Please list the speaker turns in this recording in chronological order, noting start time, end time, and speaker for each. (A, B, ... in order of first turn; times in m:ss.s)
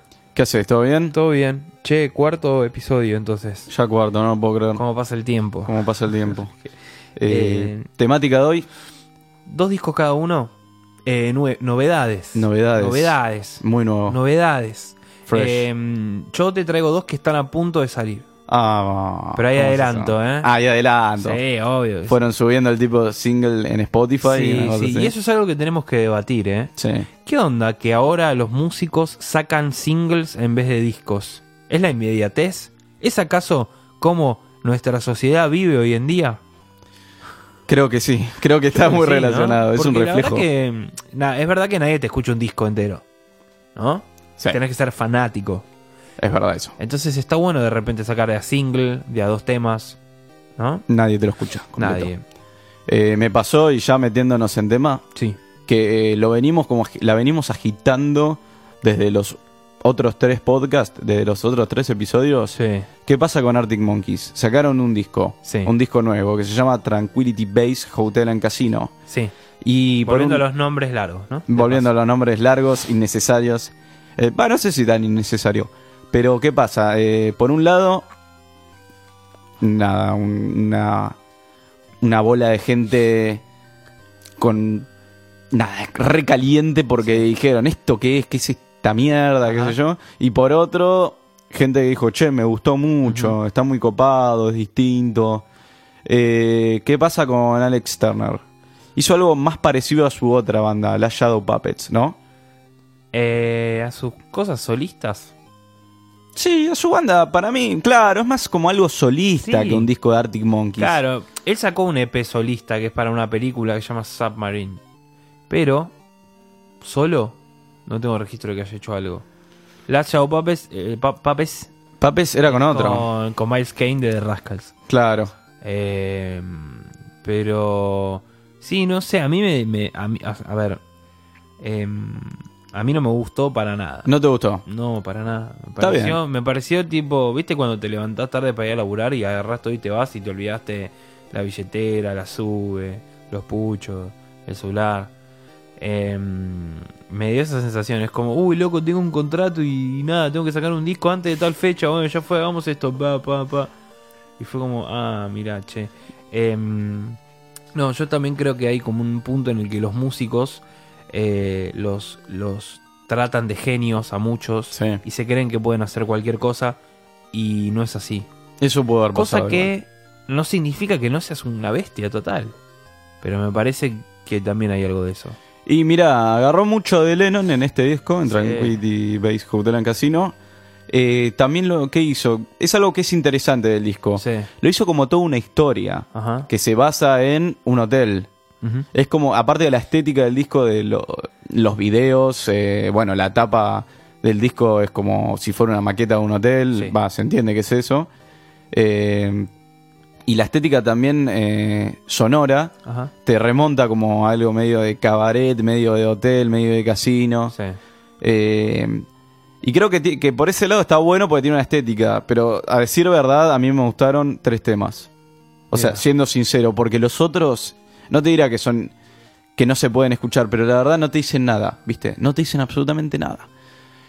0:00.3-0:01.1 A
0:01.1-0:03.7 B
0:03.7-0:04.8 A
0:04.7-0:05.7 B
0:05.6-0:06.5 A
0:07.2-0:08.7 A
0:07.3-0:07.9 B
0:09.4-0:10.5 B
0:11.0-0:18.2 B
0:12.3-0:14.2 A
0:15.3-0:15.6 A
0:18.5-0:21.4 A
0:19.4-0:20.5 B
0:21.2-0:22.2 B
0:22.1-0:25.1 A
0:24.2-0:26.7 B
0:26.8-0:27.1 A
0:27.2-0:36.4 B
0:37.7-0:40.4 A
0:38.7-0:43.0 B
0:43.8-0:45.6 B
0:46.2-0:46.8 A
0:46.8-0:50.0 B
0:50.6-0:50.8 B
0:50.9-0:52.1 A
0:51.8-0:52.2 B
0:52.9-0:55.0 A
0:55.6-1:08.9 A
1:02.5-1:02.9 B
1:05.4-1:05.7 B
1:09.1-1:09.3 B
1:09.6-1:10.4 A
1:10.0-1:11.9 B
1:11.5-1:18.0 A
1:19.6-1:21.1 A
1:22.0-1:23.4 A
1:24.4-1:24.9 A
1:25.5-1:35.4 A
1:29.4-1:29.8 B
1:33.0-1:33.4 B
1:36.0-1:38.4 A
1:39.0-1:42.2 A
1:43.1-1:45.3 B
1:46.3-1:51.0 A
1:49.4-1:49.9 B
1:50.8-1:54.8 B
1:55.5-1:55.9 B
1:56.8-1:59.2 B
1:59.9-2:01.7 B
2:02.0-2:03.1 A
2:02.5-2:04.7 B
2:04.9-2:05.3 A
2:05.6-2:10.8 B
2:11.6-2:14.1 B
2:14.0-2:14.6 A
2:14.6-2:25.1 B
2:15.8-2:16.2 A
2:25.8-2:33.7 B
2:34.4-2:37.2 B
2:37.7-2:46.8 B
2:44.7-2:45.0 A
2:47.3-2:48.3 B
2:48.6-2:49.7 A
2:49.1-2:52.6 B
2:53.2-2:55.4 B
2:55.6-3:00.4 A
2:58.2-2:58.8 B
3:00.9-3:08.3 A
3:04.2-3:04.5 B
3:06.1-3:06.5 B
3:08.6-3:08.9 B
3:08.9-3:18.1 A
3:18.7-3:19.5 A
3:20.3-3:22.7 A
3:22.8-3:23.1 B
3:23.2-3:27.5 A
3:27.5-3:27.8 B
3:28.2-3:29.1 A
3:29.6-3:35.1 A
3:35.7-3:38.9 A
3:35.7-3:36.0 B
3:39.6-3:43.5 A